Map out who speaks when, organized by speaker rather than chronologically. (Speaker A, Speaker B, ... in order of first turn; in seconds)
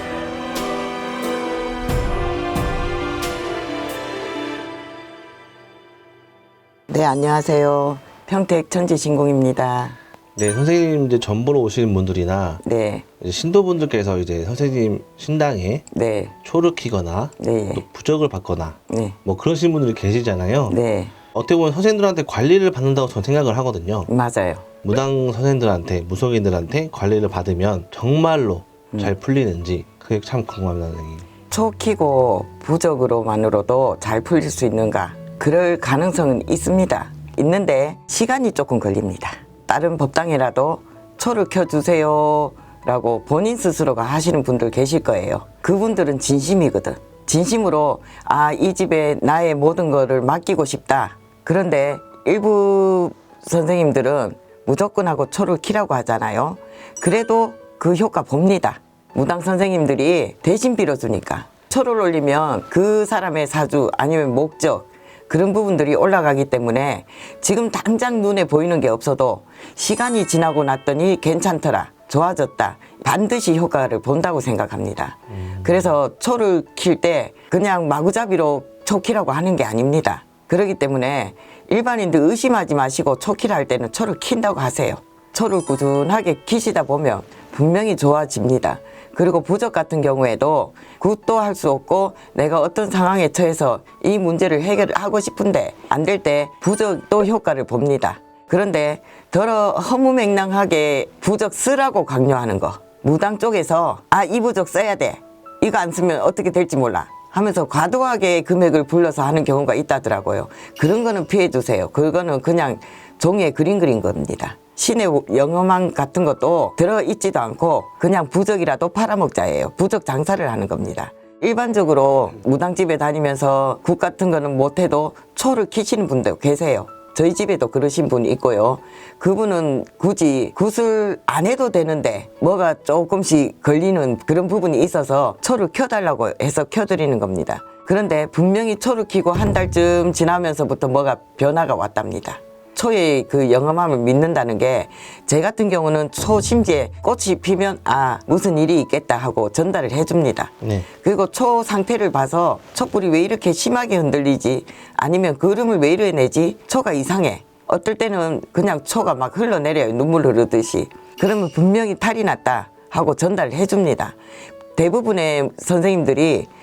Speaker A: 6.9-10.0, 12.6-13.1, 15.9-16.3, 17.4-17.9, 18.9-19.2, 20.7-21.1, 24.1-24.7, 31.5-164.2, 164.8-166.5
Speaker B: 10.4-12.6, 13.2-15.8, 16.4-20.8, 21.3-24.1, 24.8-31.3